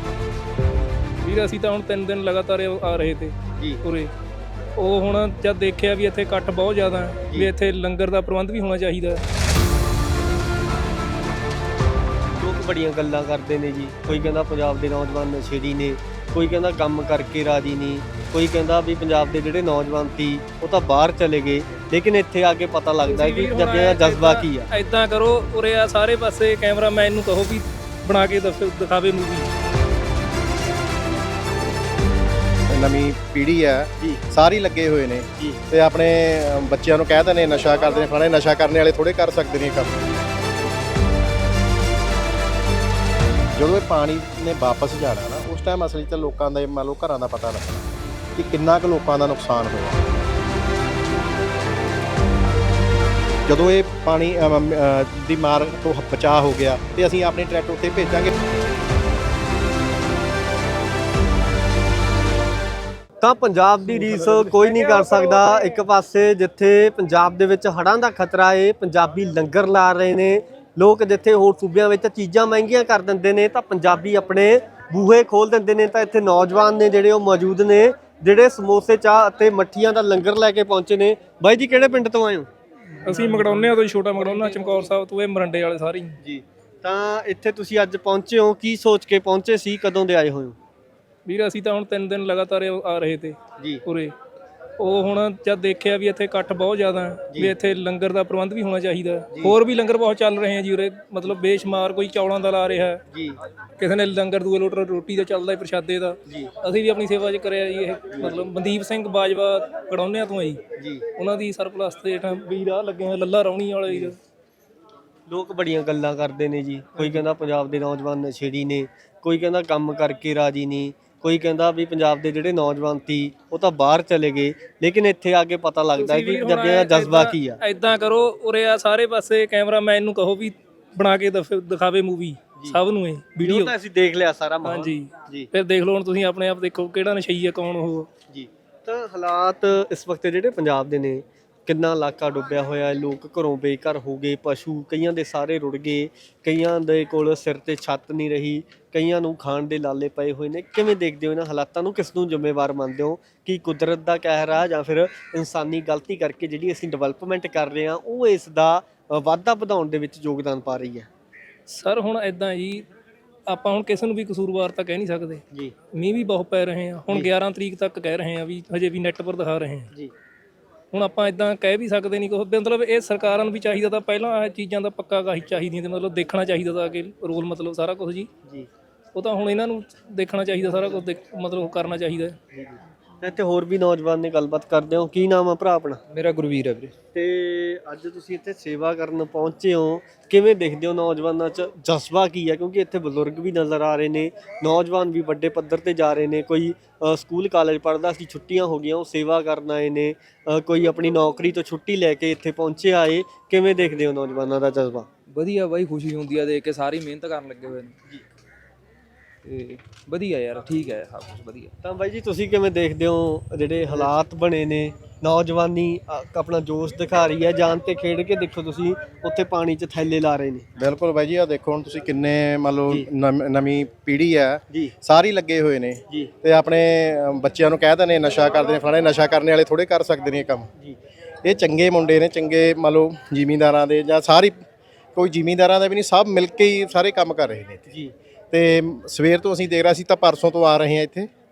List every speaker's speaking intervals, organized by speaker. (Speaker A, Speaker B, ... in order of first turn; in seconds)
Speaker A: 1.2-4.1, 4.8-9.2, 23.0-29.5, 64.0-65.4, 83.0-86.2, 91.2-94.1, 94.8-103.0, 103.8-110.6, 111.2-114.2, 117.0-117.2, 126.0-133.7, 134.6-138.1, 161.7-162.8, 163.5-165.4, 166.0-169.9, 170.9-178.3, 179.1-182.4
Speaker B: 12.4-24.7, 63.2-82.5, 84.4-84.7, 86.2-90.6, 93.6-93.8, 103.1-103.4, 108.1-108.4, 110.8-111.0, 113.9-114.1, 115.3-127.6, 133.4-135.5, 138.3-161.1, 182.5-186.0, 187.1-205.1, 211.8-220.7
Speaker C: 32.7-40.0, 43.5-50.0, 53.5-58.4, 220.8-230.7, 231.4-234.6, 235.1-237.9, 238.5-241.3
Speaker D: 186.1-186.9, 205.3-208.0, 209.4-211.7